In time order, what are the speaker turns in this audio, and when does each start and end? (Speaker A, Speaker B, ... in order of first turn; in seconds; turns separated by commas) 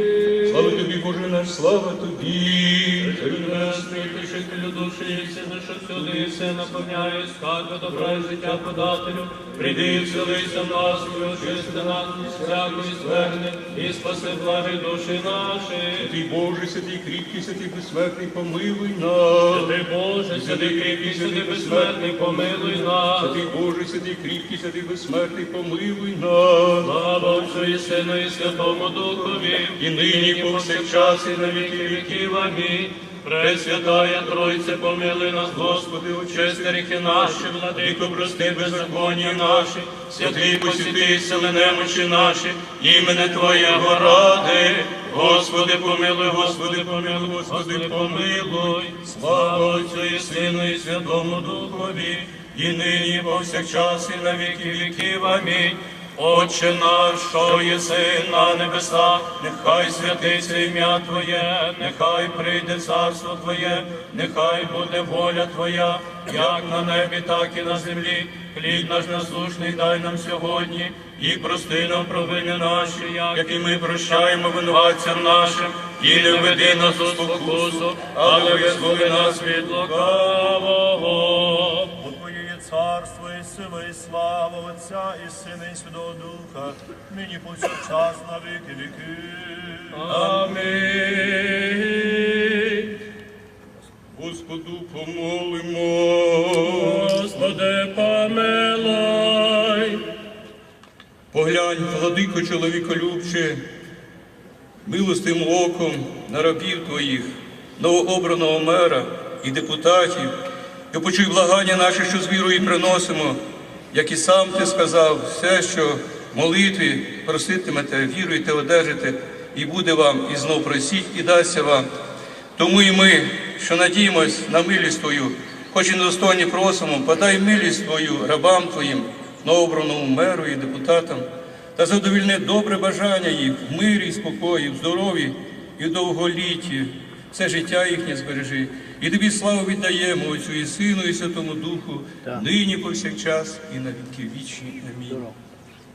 Speaker A: 0.4-4.1, Speaker B: 3.0-16.1, Speaker A: 6.0-6.3, Speaker A: 9.6-10.6, Speaker A: 11.3-13.3, Speaker A: 16.0-19.8, Speaker B: 19.5-23.4, Speaker A: 20.3-26.9, Speaker B: 26.8-81.9, Speaker A: 29.8-32.3, Speaker A: 33.4-33.7, Speaker A: 35.5-55.4, Speaker A: 59.4-60.4, Speaker A: 68.7-69.0, Speaker A: 73.3-75.5, Speaker A: 76.0-80.3, Speaker C: 82.0-90.2, Speaker B: 89.9-93.0, Speaker A: 94.1-97.3, Speaker B: 96.7-100.0, Speaker A: 101.3-103.6, Speaker A: 104.8-107.3, Speaker A: 107.8-110.3, Speaker A: 110.9-113.4, Speaker A: 113.9-121.9, Speaker A: 122.6-131.2, Speaker A: 131.8-145.2